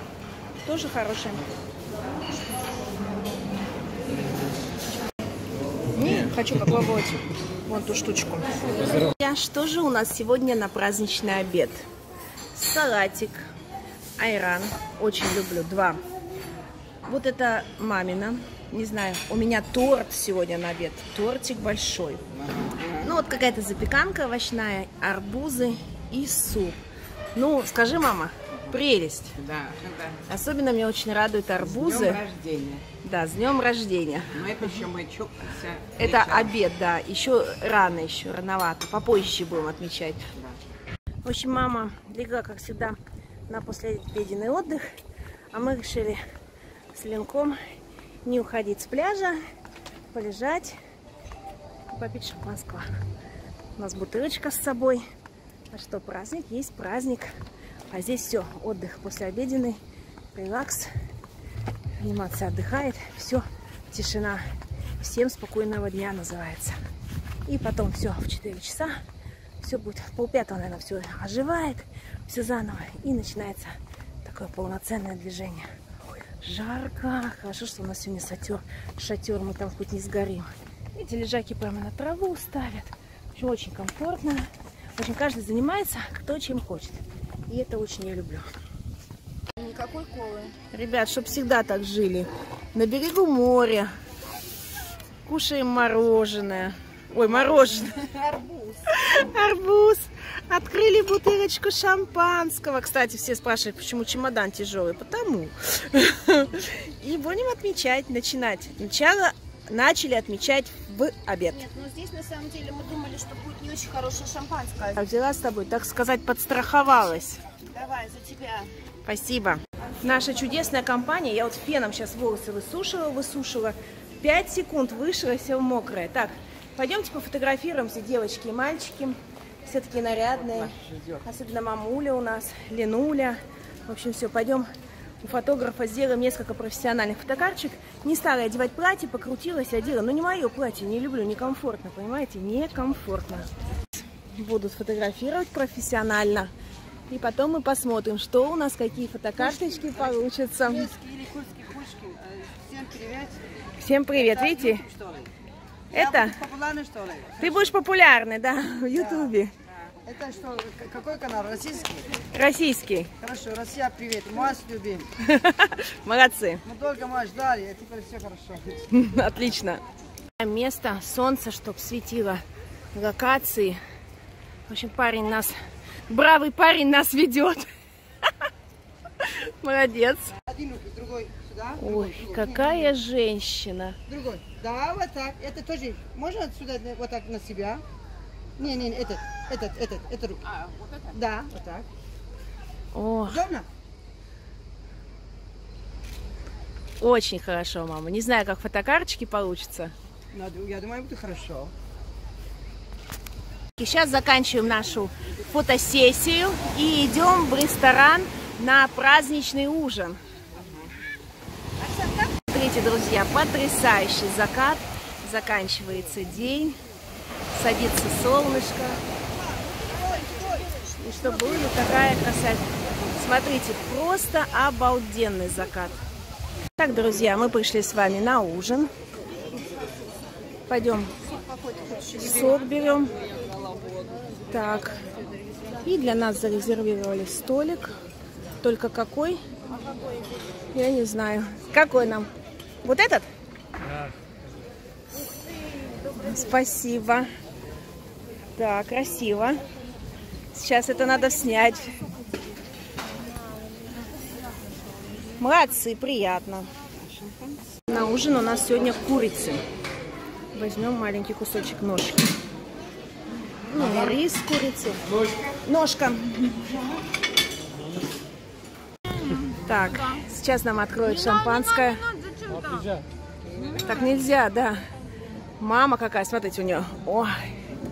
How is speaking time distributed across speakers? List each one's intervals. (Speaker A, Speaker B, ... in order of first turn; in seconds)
Speaker A: 0.6-1.4, 5.9-11.8, 12.5-13.5, 14.2-16.0, 17.1-22.2, 23.0-26.8, 27.4-29.4, 30.3-32.3, 33.0-34.6, 36.0-40.3, 41.2-43.0, 43.5-44.8, 45.5-46.2, 46.9-47.6, 48.2-49.4, 50.1-50.8, 51.9-52.9, 53.8-55.0, 55.7-57.3, 57.9-59.8, 60.3-60.9, 62.0-64.4, 65.0-66.8, 67.5-69.0, 69.6-75.7, 76.4-88.5, 90.7-93.9, 95.2-98.0, 98.9-111.6, 115.0-117.4, 119.1-134.7, 135.2-143.5, 144.3-146.5, 147.1-150.9, 153.8-154.8, 155.9-156.4, 157.4-159.5, 162.3-163.1, 165.2-166.6, 168.9-169.8, 170.4-172.4, 172.9-173.8, 174.7-175.6, 176.1-177.7, 179.2-180.3, 181.8-184.0, 192.9-193.4, 197.0-199.9, 203.8-210.2, 212.5-216.8, 217.5-219.0, 221.0-222.6, 223.2-226.0, 226.8-228.9, 230.7-231.1, 232.1-233.1, 234.5-235.0, 235.8-237.9, 238.6-239.4, 240.7-242.3, 242.8-243.3, 246.1-247.3, 248.6-249.6, 250.5-252.0, 255.4-256.7, 257.9-259.6, 260.5-262.3, 263.7-265.0, 265.6-266.7, 269.6-272.0, 273.8-274.8, 275.6-277.5
Speaker B: 22.6-23.0, 29.4-30.2, 31.7-32.8, 34.3-36.5, 257.0-257.5
Speaker C: 89.6-90.5, 98.0-98.8, 111.5-115.0, 117.7-118.7, 269.3-270.2, 271.0-273.0, 273.5-274.1
Speaker D: 149.9-153.4, 154.1-155.3, 155.9-157.7, 158.9-159.4, 160.0-162.1, 163.2-165.1, 166.7-168.8, 180.4-182.9, 184.1-187.8, 188.6-190.5, 191.0-191.9, 193.3-193.7, 200.3-201.7, 210.6-210.9, 219.6-220.7